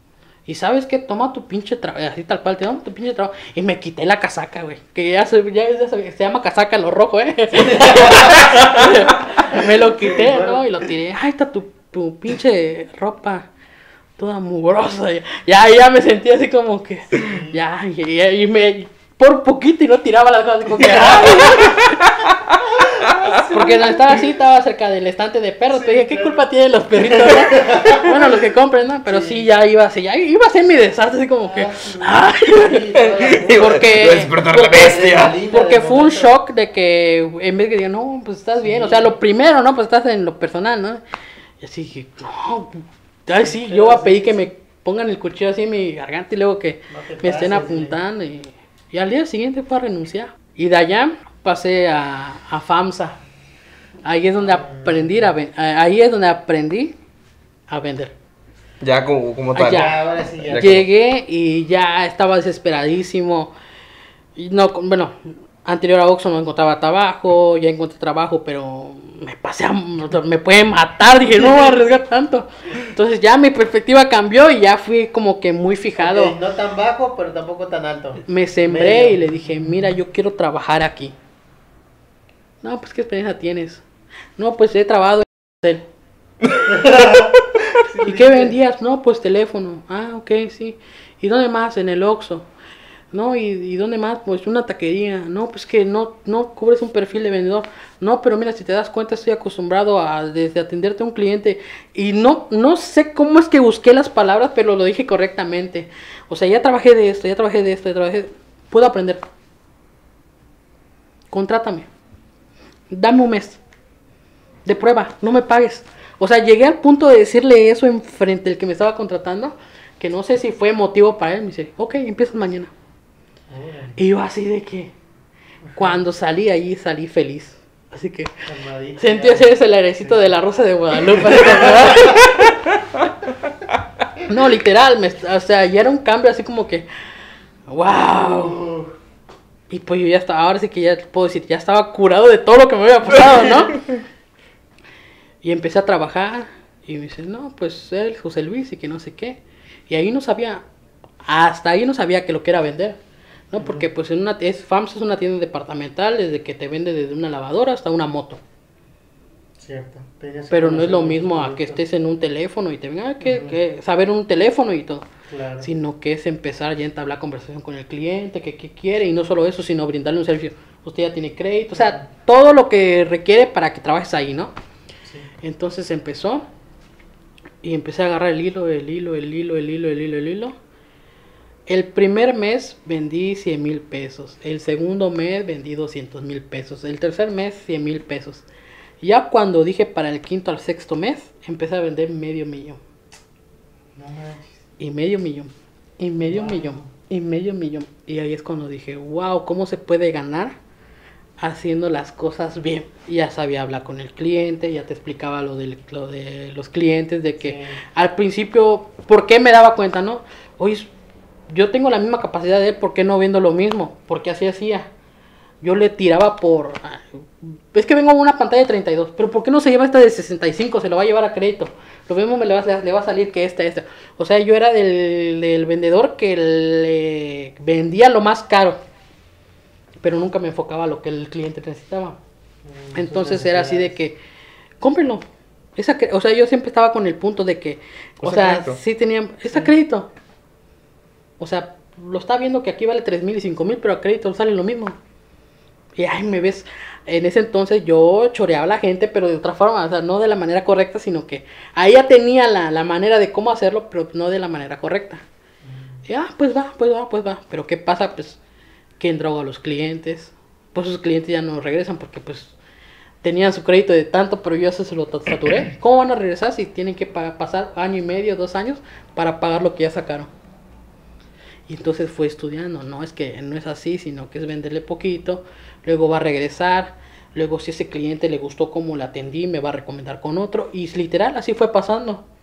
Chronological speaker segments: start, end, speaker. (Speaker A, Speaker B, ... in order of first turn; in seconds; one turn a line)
Speaker A: 0.5-13.5
Speaker B: 7.5-10.7
Speaker A: 14.2-22.0
Speaker B: 17.1-17.6
Speaker B: 20.7-21.7
Speaker B: 22.8-24.2
Speaker A: 23.5-41.0
Speaker B: 25.7-28.6
Speaker B: 29.1-29.4
Speaker B: 31.4-36.4
Speaker C: 33.0-35.4
Speaker B: 38.6-39.2
Speaker A: 41.6-53.2
Speaker B: 43.5-44.4
Speaker B: 46.9-48.0
Speaker A: 54.0-57.0
Speaker B: 54.4-55.3
Speaker A: 57.7-58.1
Speaker C: 58.8-60.9
Speaker A: 59.6-63.5
Speaker B: 59.6-60.8
Speaker A: 64.4-76.4
Speaker B: 76.0-79.5
Speaker A: 78.2-81.2
Speaker A: 82.6-83.8
Speaker A: 84.4-85.9
Speaker B: 86.7-87.3
Speaker B: 87.8-88.6
Speaker A: 88.0-92.5
Speaker A: 93.1-109.2
Speaker A: 111.3-111.9
Speaker A: 112.9-113.6
Speaker A: 114.7-122.7
Speaker B: 123.5-124.0
Speaker A: 124.0-124.9
Speaker A: 125.8-128.4
Speaker B: 128.4-130.3
Speaker A: 129.0-132.5
Speaker B: 131.0-132.2
Speaker A: 134.2-136.9
Speaker A: 137.7-138.6
Speaker B: 138.2-138.9
Speaker A: 139.7-143.9
Speaker A: 145.4-150.6
Speaker A: 151.2-153.0
Speaker A: 153.5-158.4
Speaker B: 153.6-153.9
Speaker B: 159.6-161.8
Speaker A: 160.5-165.1
Speaker B: 163.2-163.6
Speaker B: 165.3-165.7
Speaker A: 165.6-174.5
Speaker B: 171.7-172.0
Speaker B: 175.0-175.3
Speaker A: 175.4-176.5
Speaker A: 177.6-180.6
Speaker A: 181.7-188.4
Speaker A: 189.0-192.8
Speaker B: 193.9-194.6
Speaker A: 194.8-200.6
Speaker B: 196.2-196.9
Speaker A: 201.4-210.9
Speaker B: 207.4-207.8
Speaker A: 211.5-214.9
Speaker A: 215.6-228.8
Speaker A: 230.0-232.2
Speaker B: 232.7-234.0
Speaker A: 232.9-234.2
Speaker A: 234.8-235.2
Speaker A: 235.8-240.1
Speaker C: 238.2-238.8
Speaker A: 241.4-245.0
Speaker A: 246.0-255.2
Speaker B: 255.6-256.0
Speaker A: 256.1-258.4
Speaker A: 259.0-262.6
Speaker A: 263.2-270.3
Speaker A: 271.7-282.2